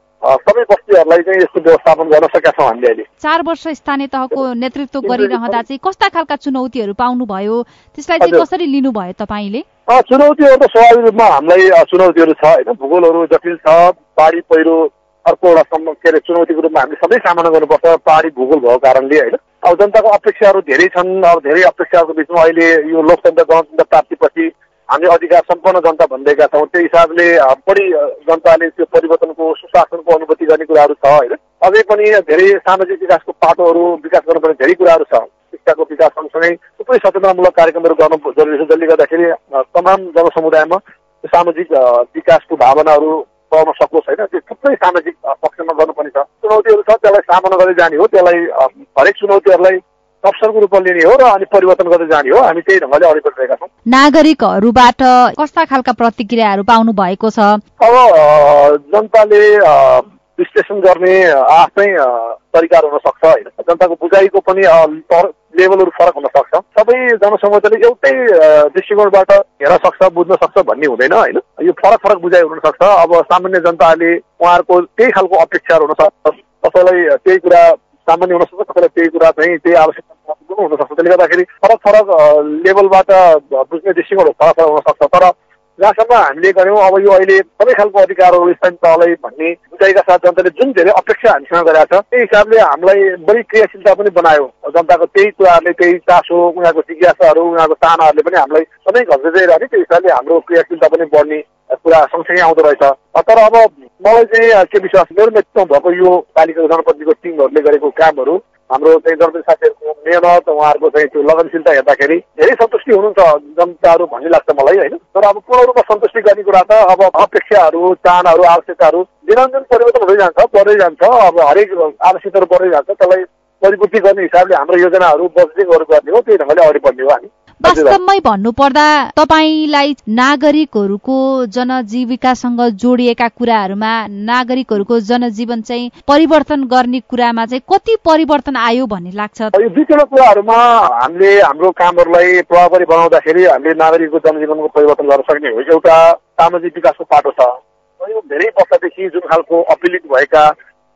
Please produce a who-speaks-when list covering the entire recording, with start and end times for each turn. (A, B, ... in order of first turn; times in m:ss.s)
0:00.2-0:03.0 A
0:03.2-0:09.6 B
0:05.0-0:05.6 A
0:09.9-0:53.7 A
0:53.9-0:57.6 B
0:57.8-2:08.0 A
2:07.6-2:19.5 B
2:19.5-2:30.5 A